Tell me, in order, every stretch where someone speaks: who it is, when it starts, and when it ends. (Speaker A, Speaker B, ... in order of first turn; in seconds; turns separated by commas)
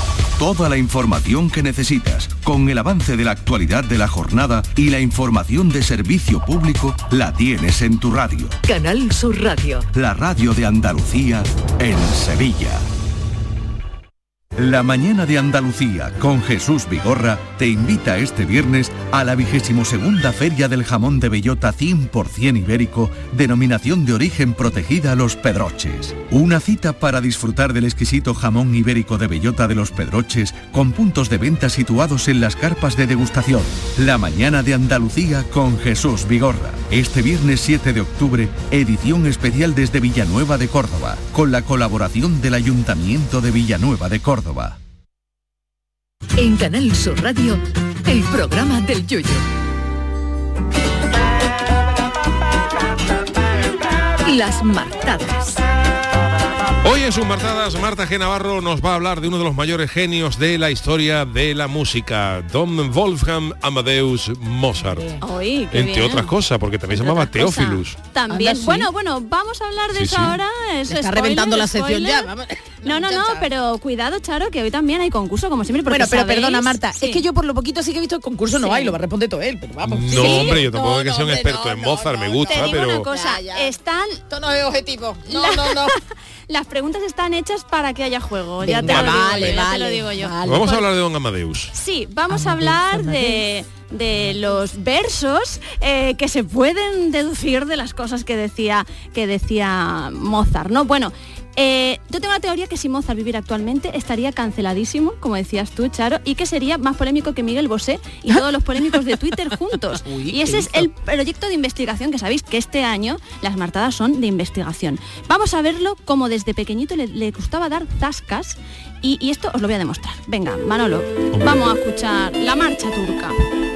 Speaker A: 0.4-8.6, Speaker B: 8.7-9.9, Speaker A: 9.9-12.8, Speaker A: 14.6-44.8, Speaker B: 46.4-49.4, Speaker B: 54.2-55.6, Speaker C: 56.8-65.1, Speaker D: 64.9-65.2, Speaker E: 65.2-66.3, Speaker C: 65.7-68.0, Speaker E: 66.9-72.3, Speaker D: 68.3-68.9, Speaker C: 69.9-70.4, Speaker D: 70.9-73.5, Speaker E: 72.8-77.2, Speaker D: 75.9-83.7, Speaker E: 78.6-79.0, Speaker C: 79.8-83.0, Speaker E: 80.1-80.7, Speaker E: 82.5-84.2, Speaker D: 84.3-86.0, Speaker E: 85.3-90.8, Speaker D: 88.6-90.8, Speaker C: 88.8-89.6, Speaker C: 90.4-91.7, Speaker E: 91.7-123.4, Speaker D: 92.3-93.4, Speaker D: 110.0-110.9, Speaker C: 121.3-121.7